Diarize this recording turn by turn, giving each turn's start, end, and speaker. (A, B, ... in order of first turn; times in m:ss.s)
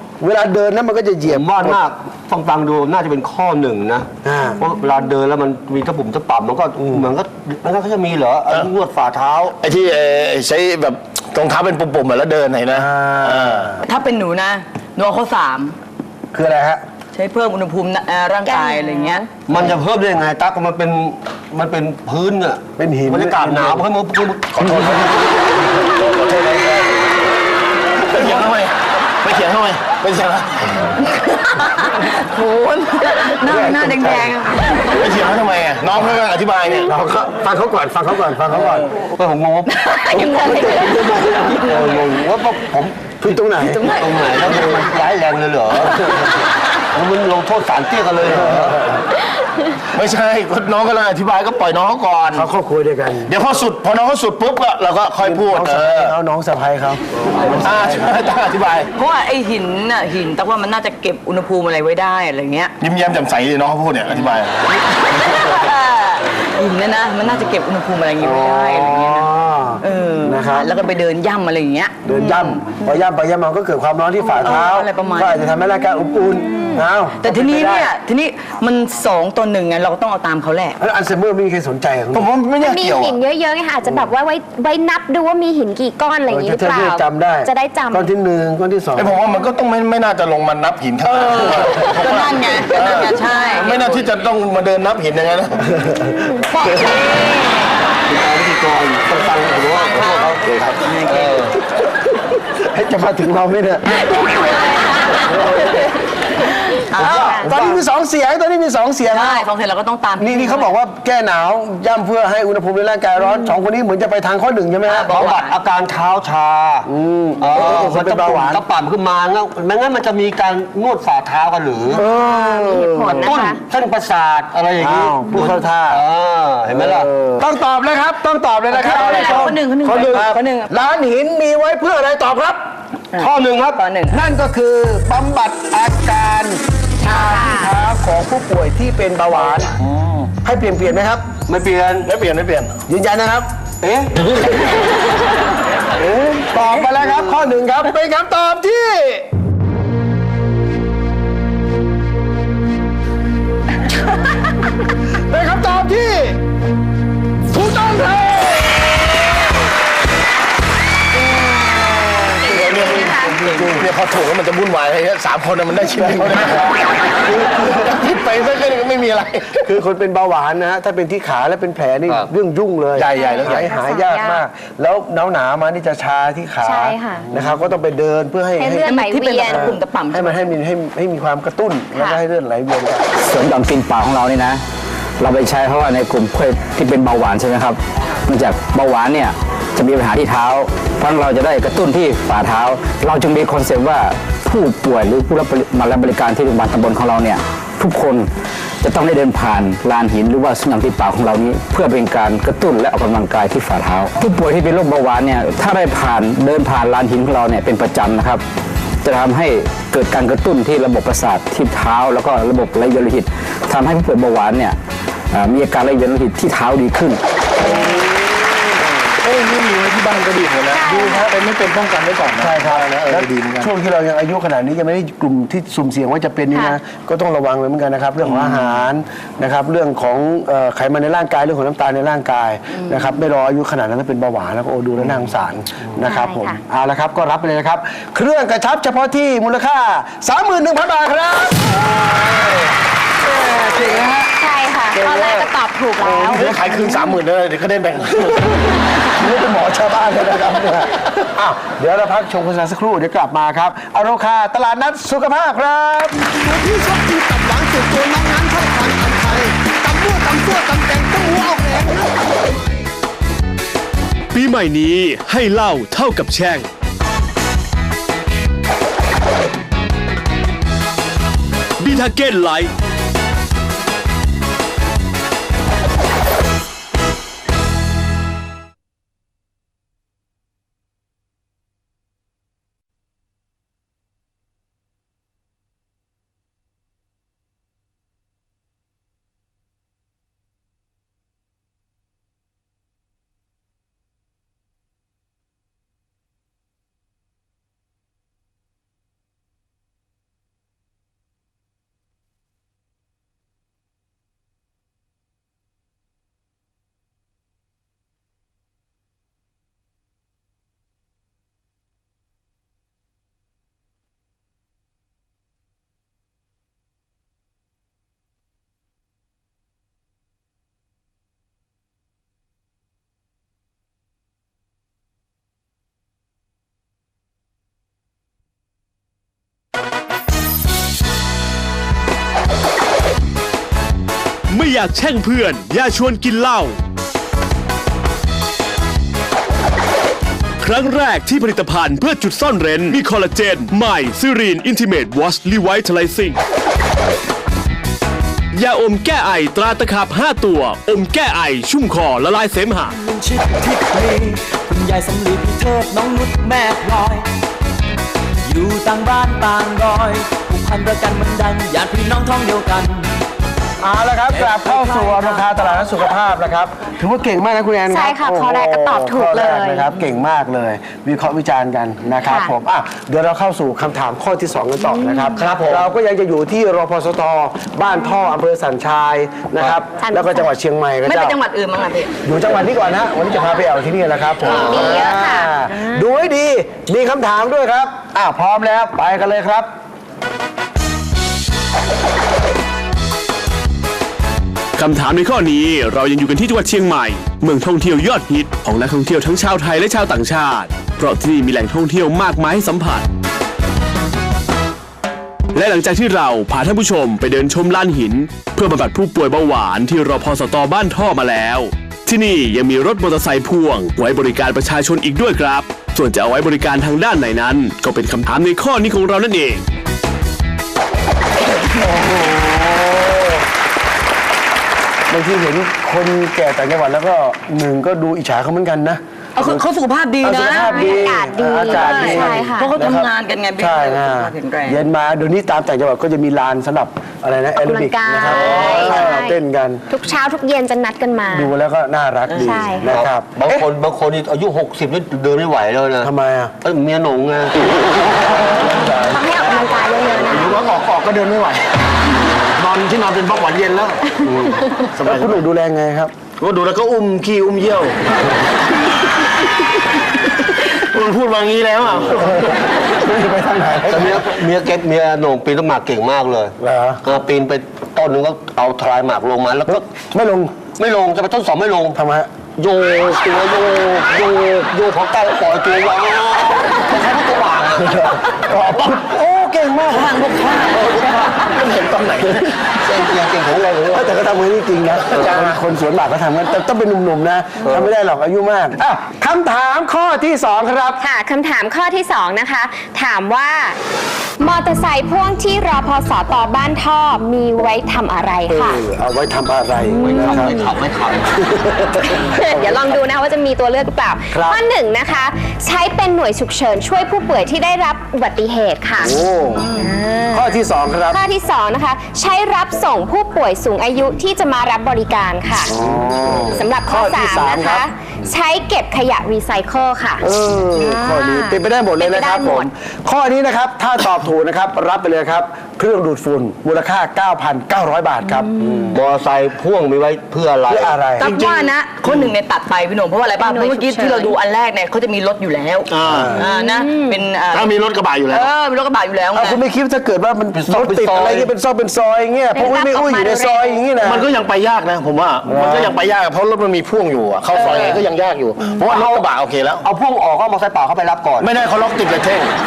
0:00.2-0:01.8 A
0:01.2-0:09.6 B
0:04.2-0:04.6 A
0:09.6-0:13.7 C
0:12.7-0:13.8 A
0:13.8-0:15.7 D
0:16.3-0:16.8 A
0:17.1-0:19.2 D
0:18.4-0:19.2 E
0:19.5-0:25.3 B
0:22.8-0:23.8 A
0:24.6-0:26.9 A
0:26.0-0:26.7 C
0:28.0-0:30.9 C
0:28.2-0:28.4 A
0:31.3-0:34.9 D
0:33.4-0:34.4 A
0:35.0-0:36.9 C
0:36.8-0:38.9 A
0:39.0-0:39.7 B
0:39.7-0:41.5 D
0:40.1-0:41.7 A
0:41.6-0:46.1 B
0:43.2-0:43.8 A
0:43.6-0:44.7 D
0:46.9-0:48.8 B
0:48.3-0:49.0 A
0:49.9-0:52.5 C
0:52.3-0:53.3 A
0:53.3-0:56.1 C
0:55.2-0:58.2 A
0:57.6-0:58.9 C
0:59.0-1:02.7 D
1:02.8-1:04.6 C
1:05.1-1:09.3 D
1:05.1-1:05.7 A
1:08.2-1:10.7 A
1:09.8-1:13.0 D
1:12.0-1:17.9 A
1:14.2-1:15.4 D
1:16.5-1:16.8 E
1:17.2-1:20.8 D
1:20.8-1:22.3 A
1:22.1-1:23.2 C
1:22.6-1:28.1 E
1:26.3-1:29.2 A
1:29.0-1:35.6 C
1:31.1-1:34.0 D
1:31.3-1:31.9 A
1:33.3-1:33.7 E
1:35.6-1:37.0 A
1:36.2-1:37.7 E
1:36.6-1:36.9 D
1:38.1-1:41.6 B
1:39.8-1:41.4 D
1:42.6-1:44.1 A
1:44.5-1:45.2 E
1:45.3-1:45.7 A
1:46.9-1:47.8 B
1:47.0-1:49.4 A
1:47.1-1:47.5 E
1:49.1-1:50.7 D
1:50.2-1:55.4 A
1:54.9-1:55.6 D
1:54.9-1:56.9 B
1:56.8-1:58.6 A
1:57.4-2:02.0 B
2:01.9-2:03.5 A
2:01.9-2:03.6 E
2:03.1-2:07.1 B
2:04.8-2:06.0 A
2:06.7-2:12.6 A
2:08.7-2:10.7 D
2:13.1-2:14.2 D
2:13.2-2:13.8 B
2:14.1-2:19.7 A
2:17.0-2:17.7 E
2:19.8-2:20.3 B
2:20.4-2:21.3 A
2:21.5-2:22.1 B
2:22.0-2:22.8 C
2:22.9-2:23.5 A
2:23.8-2:24.2 B
2:24.4-2:24.8 A
2:26.0-2:29.2 A
2:35.3-2:36.4 A
2:37.5-2:39.0 A
2:41.1-2:43.5 E
2:42.4-2:43.9 A
2:42.5-2:46.7 C
2:46.0-2:47.7 A
2:47.3-2:49.6 C
2:49.6-3:03.1 A
2:53.0-2:53.7 C
2:53.2-2:54.4 E
2:56.6-2:57.3 E
2:58.6-2:59.8 E
2:58.8-3:00.5 D
3:01.9-3:02.2 E
3:03.1-3:04.6 F
3:05.2-3:18.3 F
3:18.8-3:28.4 F
3:29.0-3:34.8 F
3:35.3-3:37.2 F
3:37.6-3:38.0 E
3:37.6-3:38.6 A
3:39.2-3:43.7 C
3:40.7-3:41.3 E
3:42.4-4:02.1 A
3:56.0-3:56.6 E
4:03.2-4:04.3 A
4:04.4-4:06.5 E
4:04.9-4:07.1 A
4:06.3-4:08.6 C
4:09.1-4:16.2 A
4:16.4-4:22.8 G
4:24.3-4:26.7 H
4:31.8-4:32.7 H
5:34.5-5:36.8 H
5:40.6-5:46.4 H
5:48.5-5:52.9 H
5:52.9-5:57.2 I
5:58.4-6:03.1 I
6:03.8-6:21.4 A
6:07.9-6:09.9 E
6:12.2-6:12.5 E
6:14.8-6:15.4 E
6:15.3-6:15.8 B
6:20.0-6:20.5 E
6:21.0-6:22.1 D
6:22.2-6:29.7 A
6:24.4-6:26.0 E
6:34.8-6:43.0 H
6:45.5-6:59.6 H
7:01.7-7:03.4 A
7:05.1-7:09.6 A
7:09.3-7:14.8 D
7:10.2-7:19.8 A
7:10.6-7:12.7 E
7:17.6-7:19.4 E
7:18.3-7:19.1 C
7:19.9-7:21.5 E
7:21.3-7:23.6 A
7:22.4-7:22.9 E
7:22.8-7:26.1 B
7:26.0-7:26.5 A
7:26.6-7:27.7 B
7:28.1-7:29.2 A
7:29.1-7:30.6 E
7:30.2-7:31.6 C
7:32.6-7:34.0 C
7:34.2-7:35.3 B
7:35.0-7:36.1 A
7:36.4-7:38.0 C
7:40.6-7:42.4 C
7:42.1-7:44.3 A
7:43.8-7:49.9 B
7:46.6-7:47.0 A
7:49.7-7:50.6 A
7:50.8-7:52.0 B
7:51.9-7:52.3 A
7:52.5-7:58.1 B
7:57.8-7:58.2 A
7:58.5-7:59.0 C
7:58.8-8:00.1 A
7:59.9-8:00.8 D
8:00.1-8:01.1 B
8:01.3-8:02.5 C
8:02.8-8:04.1 B
8:03.9-8:11.0 A
8:05.0-8:05.6 C
8:05.1-8:05.4 B
8:07.6-8:07.9 B
8:11.0-8:13.8 E
8:14.4-8:18.8 E
8:18.5-8:20.6 A
8:19.8-8:20.7 E
8:20.0-8:21.3 B
8:21.3-8:22.9 A
8:22.0-8:29.1 E
8:24.3-8:24.6 A
8:29.0-8:29.7 A
8:29.7-8:30.5 E
8:30.3-8:31.2 A
8:31.1-8:35.7 E
8:35.7-8:37.9 A
8:36.5-8:42.7 E
8:40.2-8:48.5 A
8:48.2-8:49.0 E
8:48.6-8:51.2 B
8:50.7-8:51.3 A
8:51.2-8:57.8 D
8:51.2-8:51.5 C
8:53.4-8:54.3 E
8:55.9-8:56.4 C
8:56.0-8:56.5 A
8:56.4-8:57.2 E
8:57.5-8:58.5 C
8:58.3-8:59.6 D
8:59.3-9:04.2 A
9:00.6-9:01.5 B
9:02.5-9:03.9 E
9:04.0-9:09.8 C
9:05.4-9:06.0 A
9:07.6-9:08.0 D
9:08.8-9:09.3 B
9:09.8-9:11.5 B
9:11.4-9:12.5 C